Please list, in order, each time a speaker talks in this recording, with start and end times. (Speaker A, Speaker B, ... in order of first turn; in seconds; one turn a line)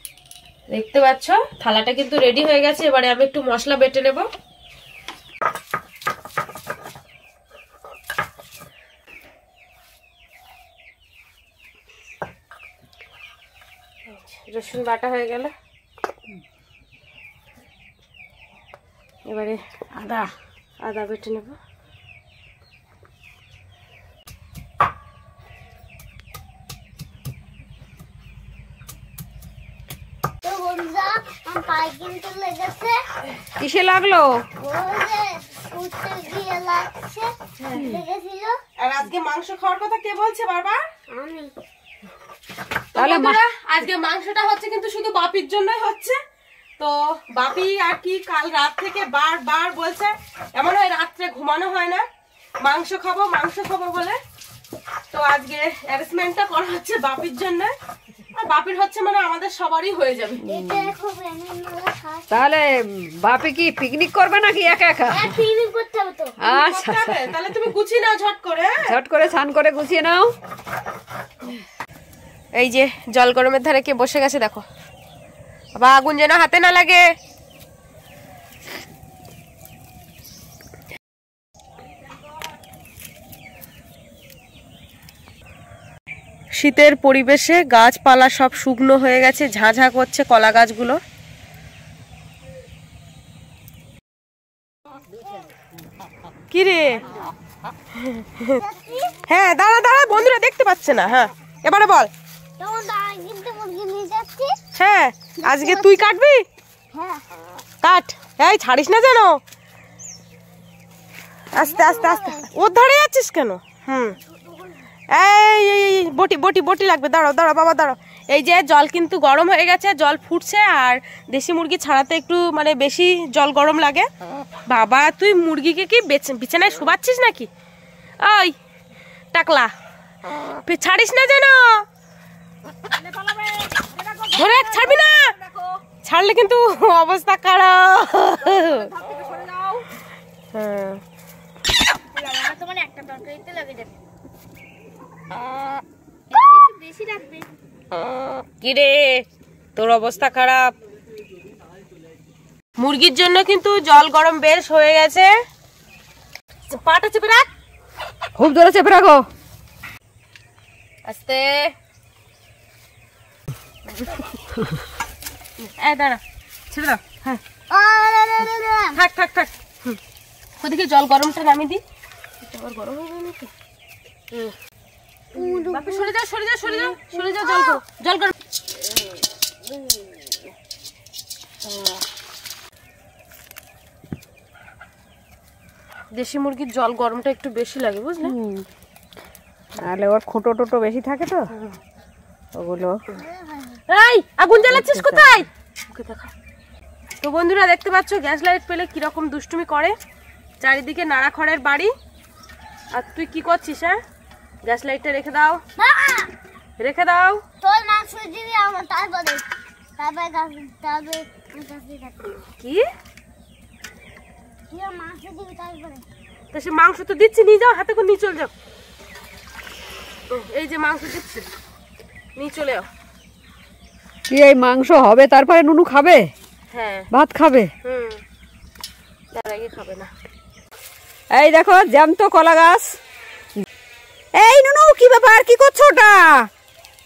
Speaker A: 0.7-4.3
Speaker A: 14.1-15.5
Speaker A: 19.2-19.6
Speaker B: 19.9-20.3
Speaker A: 20.8-21.6
Speaker C: 30.4-33.0
Speaker B: 33.6-34.4
Speaker C: 34.6-38.6
Speaker A: 37.6-37.9
Speaker A: 38.8-40.8
Speaker C: 41.1-41.5
Speaker A: 42.9-46.2
Speaker B: 43.0-43.4
Speaker A: 46.8-52.0
Speaker A: 52.6-54.2
Speaker A: 55.1-57.7
Speaker A: 58.3-60.4
Speaker B: 60.4-60.9
Speaker C: 60.5-62.3
Speaker B: 62.3-65.3
Speaker C: 65.1-66.4
Speaker B: 66.4-67.3
Speaker A: 66.4-68.9
Speaker B: 68.8-70.3
Speaker A: 72.5-74.6
Speaker A: 75.7-77.0
Speaker A: 86.5-91.0
Speaker A: 96.5-97.0
Speaker A: 98.0-98.6
Speaker C: 98.6-99.2
Speaker A: 99.3-102.1
Speaker C: 102.6-104.5
Speaker A: 104.7-106.4
Speaker C: 105.4-106.1
Speaker C: 106.9-107.2
Speaker A: 107.8-109.4
Speaker A: 111.5-114.2
Speaker C: 111.5-112.5
Speaker A: 115.1-124.1
Speaker A: 124.7-127.5
Speaker A: 128.2-128.5
Speaker A: 129.3-129.7
Speaker A: 130.6-131.8
Speaker B: 132.9-135.7
Speaker A: 134.3-135.2
Speaker A: 136.0-138.9
Speaker B: 138.4-139.8
Speaker A: 140.5-141.0
Speaker A: 142.3-143.8
Speaker A: 148.6-149.2
Speaker A: 149.8-150.7
Speaker A: 152.8-155.3
Speaker A: 156.7-157.5
Speaker B: 158.3-159.2
Speaker A: 161.0-161.7
Speaker A: 163.9-164.2
Speaker A: 165.6-167.4
Speaker C: 167.7-169.0
Speaker A: 168.9-170.0
Speaker A: 170.6-171.8
Speaker A: 172.4-173.5
Speaker C: 175.3-176.1
Speaker A: 175.3-178.3
Speaker C: 176.6-177.8
Speaker A: 186.1-188.3
Speaker B: 188.2-188.7
Speaker B: 189.8-191.5
Speaker A: 191.5-191.8
Speaker B: 192.5-193.0
Speaker C: 193.1-193.8
Speaker A: 193.9-196.3
Speaker B: 194.6-195.4
Speaker A: 197.2-199.9
Speaker A: 200.6-201.9
Speaker A: 202.9-204.0
Speaker A: 204.6-205.6
Speaker C: 205.8-206.3
Speaker A: 206.8-207.4
Speaker C: 207.6-209.4
Speaker C: 210.0-212.3
Speaker A: 212.4-212.8
Speaker C: 214.7-216.1
Speaker A: 216.5-218.5
Speaker A: 220.3-221.5
Speaker A: 222.3-222.9
Speaker B: 224.3-226.3
Speaker A: 226.7-227.1
Speaker B: 227.1-227.7
Speaker A: 227.8-228.2
Speaker A: 229.3-230.1
Speaker B: 231.3-233.0
Speaker B: 234.3-236.5